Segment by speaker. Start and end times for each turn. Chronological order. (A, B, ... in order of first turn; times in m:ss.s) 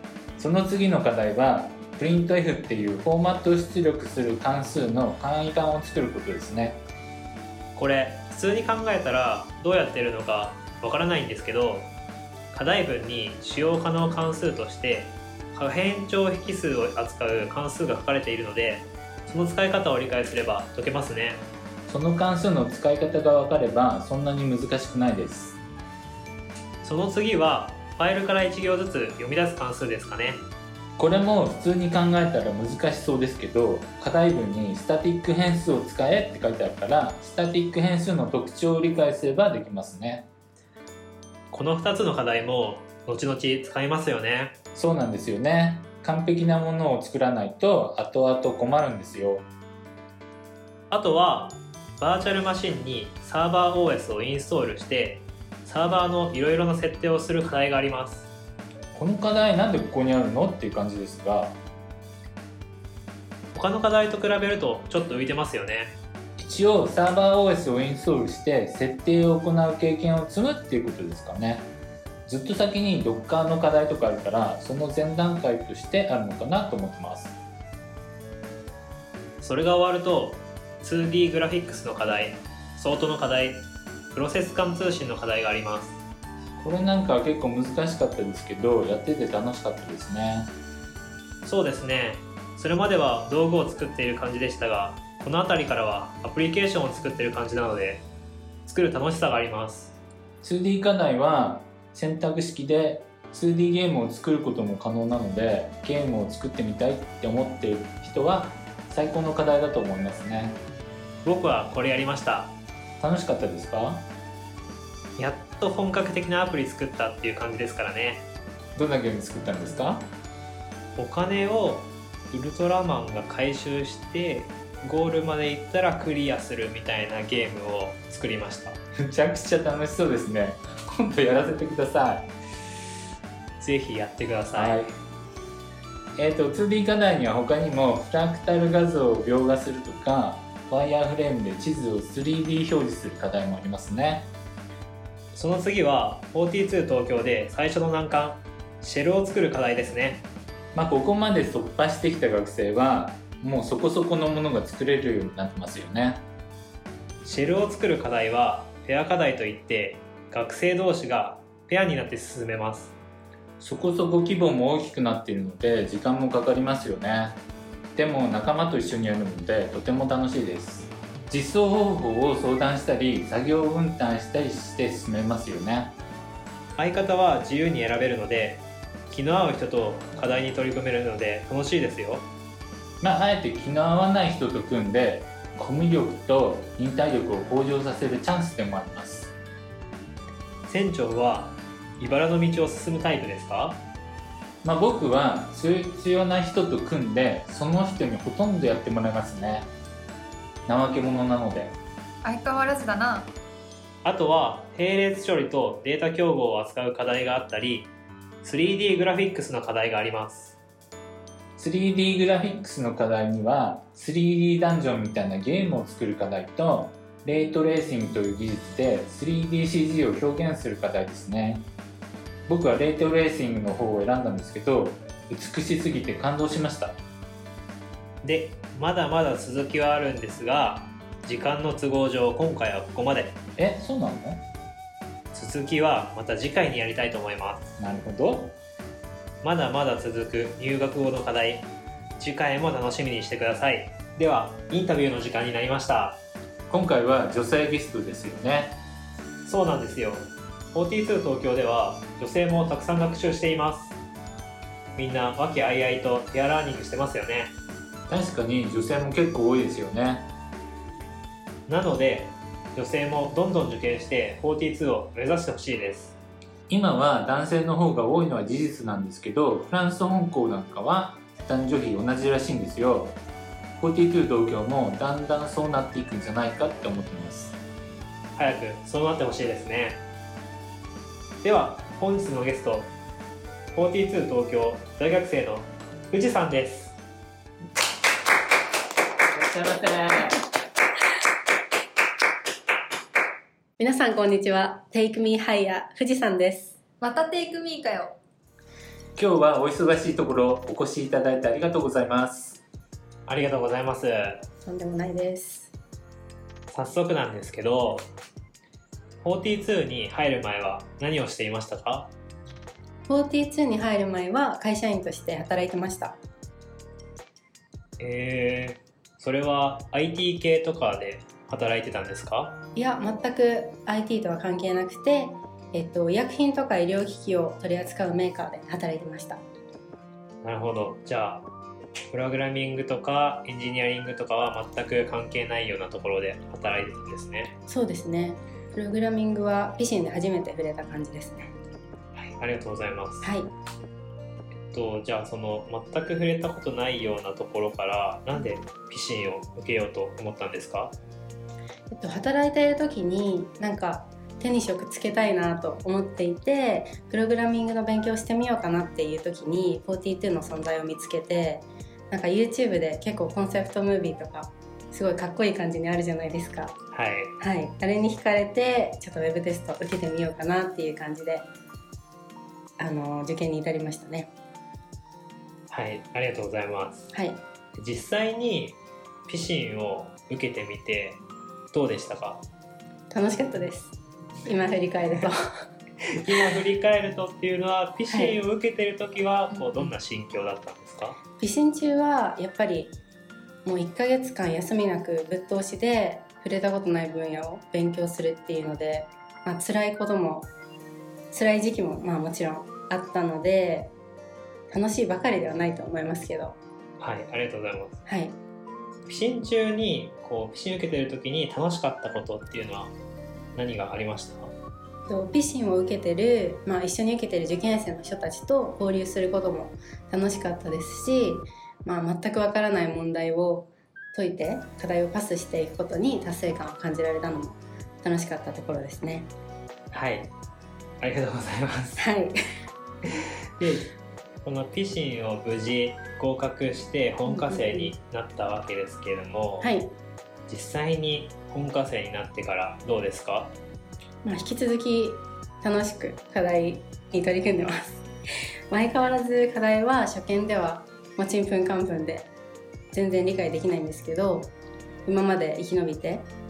0:00.4-0:06.8 A
0:07.8-0:11.9 B
0:12.5-0:21.5 B
0:21.9-0:25.6 A
0:26.8-0:30.4 B
0:31.0-0:40.3 A
0:41.5-0:44.6 B
0:44.8-0:49.5 A
0:50.9-0:58.3 B
0:59.0-1:01.6 A
1:03.5-1:06.0 B
1:06.4-1:11.7 A
1:12.3-1:17.4 A
1:19.4-1:26.0 B
1:26.6-1:30.5 A
1:31.4-1:38.0 B
1:38.7-1:40.0 B
1:40.4-1:50.6 A
1:51.2-1:52.6 B
1:53.0-1:54.1 A
1:55.2-1:58.3 B
1:58.8-2:00.1 A
2:01.0-2:08.8 B
2:09.0-2:12.3 A
2:13.6-2:14.9 B
2:14.6-2:14.9 A
2:16.2-2:24.3 A
2:25.3-2:30.3 B
2:30.7-2:36.2 A
2:37.2-2:43.0 B
2:43.6-2:47.4 A
2:48.0-2:56.0 A
2:56.8-3:02.3 B
3:03.0-3:09.3 A
3:10.7-3:13.8 B
3:14.6-3:19.7 A
3:20.7-3:21.8 A
3:22.2-3:23.3 C
3:24.0-3:27.9 B
3:28.4-3:30.6 B
3:31.6-3:41.7 A
3:42.5-3:47.0 A
3:48.2-3:53.4 B
3:53.6-3:54.4 A
3:55.3-3:57.7 B
3:57.8-3:58.6 A
3:59.4-4:06.2 B
4:06.7-4:08.8 A
4:09.4-4:14.0 B
4:15.0-4:17.6 B
4:18.1-4:20.3 A
4:21.7-4:26.2 B
4:26.7-4:33.2 A
4:33.8-4:37.6 A
4:38.4-4:40.0 B
4:41.4-4:42.9 B
4:43.7-4:47.0 B
4:49.3-4:50.4 A
4:53.8-4:56.8 D
4:57.0-4:58.2 C
4:59.2-5:02.6 A
5:03.3-5:04.4 B
5:04.6-5:05.7 D
5:06.7-5:08.1 B
5:09.2-5:12.1 B
5:13.1-5:16.2 D
5:18.0-5:22.6 B
5:22.8-5:29.4 D
5:30.4-5:31.5 B
5:32.1-5:37.6 B
5:37.7-5:41.5 D
5:42.2-5:43.3 B
5:43.2-5:43.5 D
5:44.6-5:51.0 B
5:51.9-6:06.8 D
6:06.9-6:07.3 B
6:07.4-6:11.5 D
6:12.8-6:14.3 D
6:15.7-6:17.1 B
6:17.1-6:17.4 D
6:17.8-6:21.2 B
6:21.7-6:22.4 B
6:23.1-6:25.4 D
6:26.1-6:31.2 B
6:28.1-6:28.4 D
6:31.4-6:33.0 D
6:33.6-6:40.5 D
6:41.3-6:43.9 D
6:44.7-6:46.6 D
6:47.0-6:48.0 B
6:48.0-6:48.4 D
6:49.1-6:53.0 B
6:53.6-6:54.5 B
6:55.1-7:09.3 D
7:09.9-7:10.3 B
7:11.0-7:12.0 B
7:12.0-7:12.4 D
7:13.6-7:19.7 B
7:17.3-7:17.9 D
7:19.6-7:19.9 D
7:20.5-7:23.6 B
7:24.2-7:28.1 D
7:28.7-7:32.3 D
7:32.9-7:34.5 D
7:35.0-7:36.3 D